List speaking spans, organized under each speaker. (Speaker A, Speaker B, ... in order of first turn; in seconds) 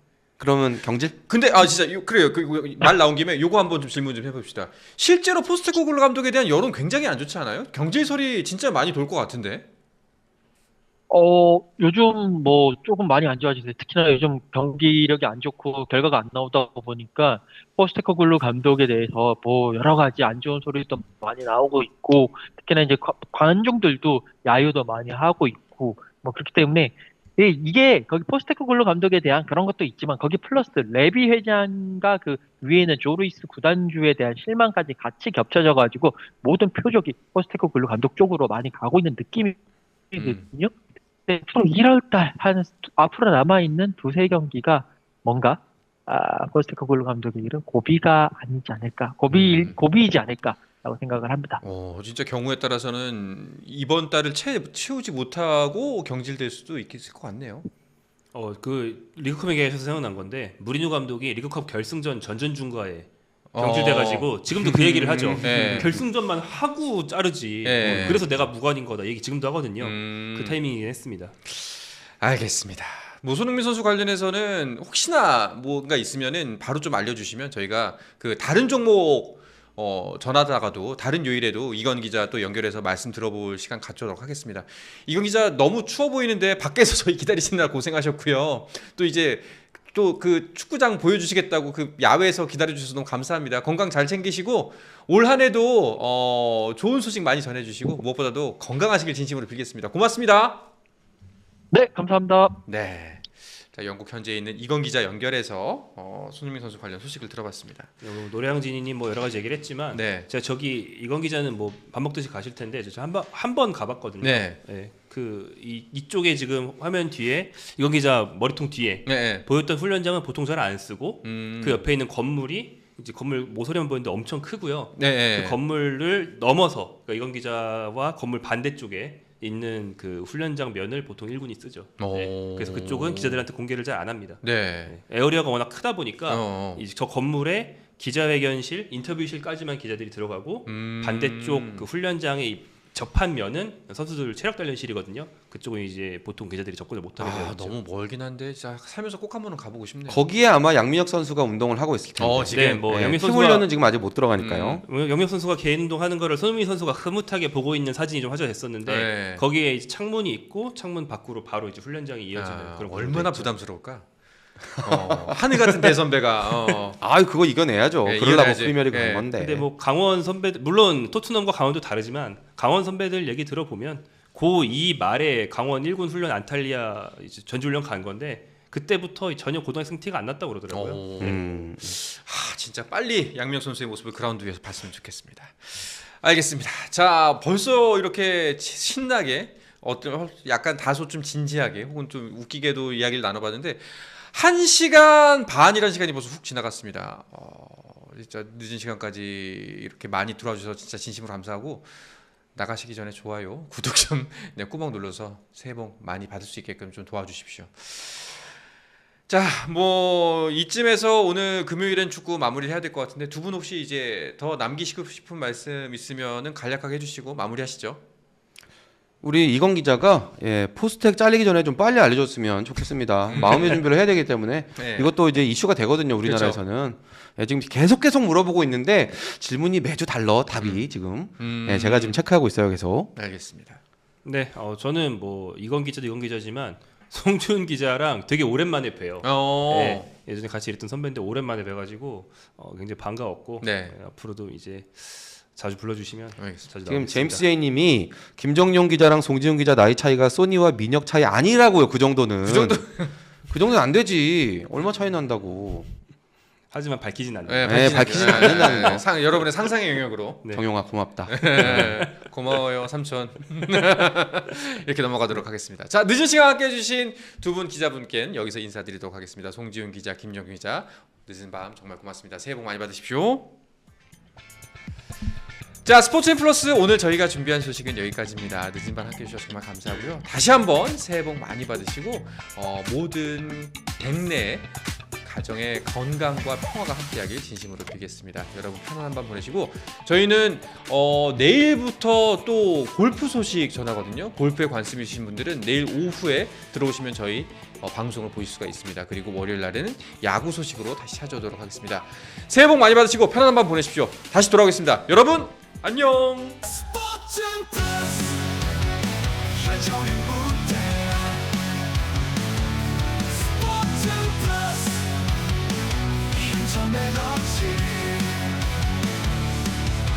Speaker A: 0.4-1.2, 65.4-66.0, 150.1-154.8, 164.8-165.3, 167.0-169.7, 181.2-182.0, 219.2-233.1, 246.8-255.9, 257.6-259.0, 260.5-262.0
Speaker B: 1.3-9.6, 40.1-40.4, 49.3-49.8, 51.6-57.7, 63.5-66.0, 67.6-68.2, 69.8-70.6, 71.5-100.7, 102.7-107.9, 109.9-110.3, 114.2-114.6, 119.0-119.4, 121.2-121.8, 125.0-125.5, 132.0-133.4, 134.4-134.9, 136.3-136.8, 140.7-141.8, 147.2-150.2, 152.2-152.9, 154.4-154.8, 158.8-159.4, 162.3-164.1, 164.8-167.0, 168.0-169.3, 180.7-201.9, 202.5-208.5, 209.3-218.0, 223.3-223.8, 224.8-225.1, 226.2-226.6, 230.6-230.8, 231.4-232.2, 233.1-233.8, 239.2-240.1, 243.6-243.9, 246.4-246.7, 252.4-253.1, 257.5-260.5, 261.3-273.5, 275.8-306.6
Speaker C: 11.1-39.6, 40.1-51.6, 101.7-102.6
Speaker D: 58.3-71.3, 108.0-147.7, 152.5-153.7, 154.8-163.5, 169.4-181.0, 234.2-247.4, 256.7-259.0, 261.4-262.2
Speaker E: 306.7-308.6, 309.6-311.5, 313.4-315.1, 316.3-318.5